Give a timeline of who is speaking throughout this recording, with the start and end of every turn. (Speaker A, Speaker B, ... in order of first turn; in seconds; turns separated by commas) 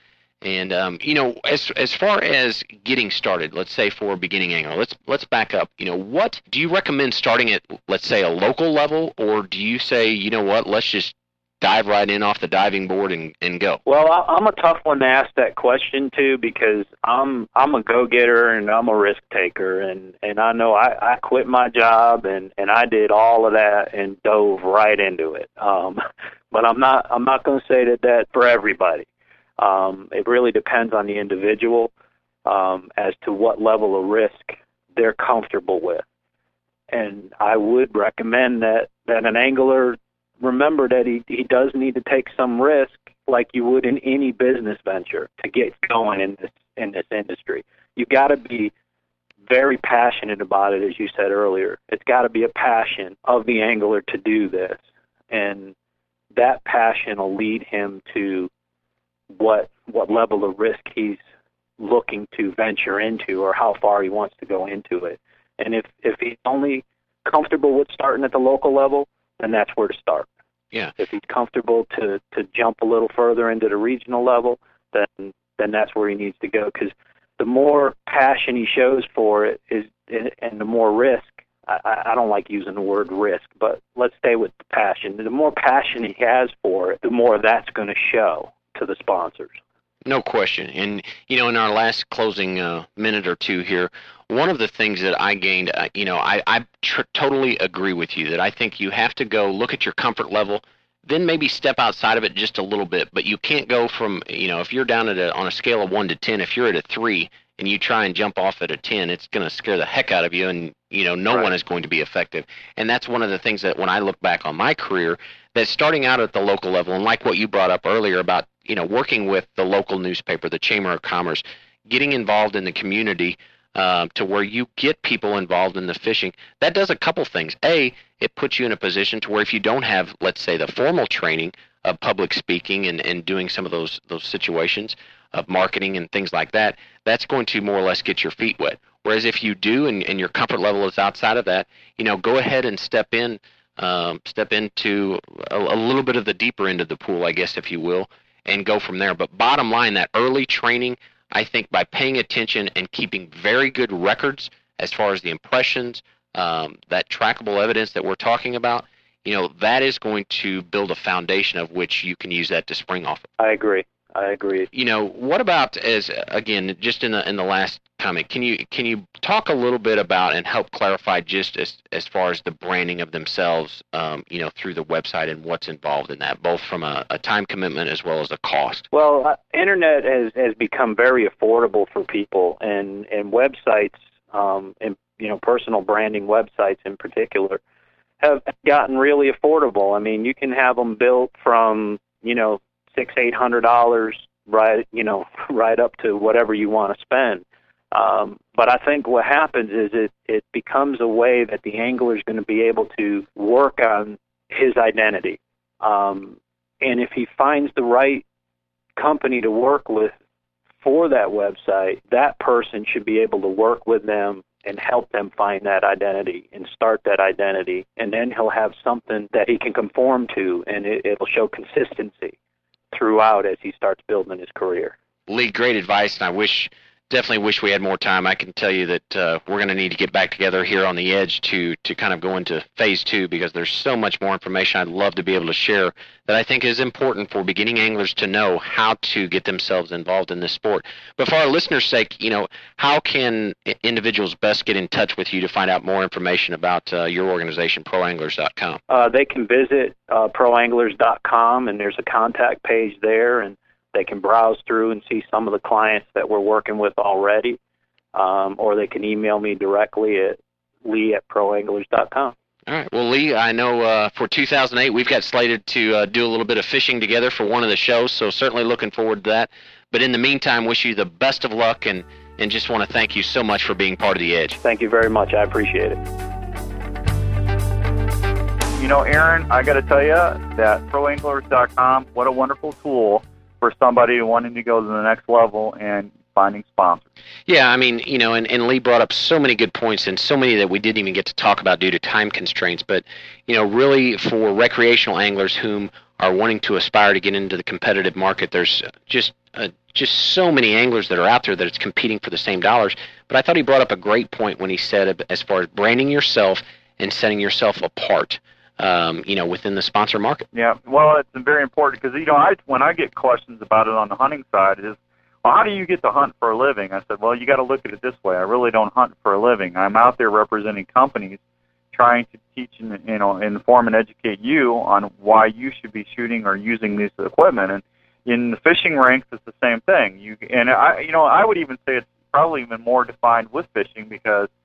Speaker A: 0.4-13.8, Speaker B: 13.8-26.0, Speaker B: 26.5-29.1, Speaker B: 29.6-31.9, Speaker B: 32.5-36.0, Speaker B: 36.9-48.7, Speaker B: 49.5-54.8, Speaker B: 55.3-55.7, Speaker B: 56.3-58.5, Speaker B: 59.3-61.2, Speaker B: 61.8-70.3, Speaker B: 71.0-89.5, Speaker A: 90.0-163.2, Speaker B: 163.4-164.7, Speaker A: 164.7-178.8, Speaker B: 178.9-187.6, Speaker B: 188.2-208.2, Speaker B: 208.9-210.1, Speaker B: 210.8-222.3, Speaker B: 222.9-224.9, Speaker A: 225.3-248.8, Speaker B: 248.9-257.6, Speaker B: 258.1-262.3, Speaker A: 262.7-274.6, Speaker B: 274.6-276.0, Speaker C: 278.7-287.0, Speaker A: 287.5-310.5, Speaker C: 310.5-321.4, Speaker C: 321.9-334.5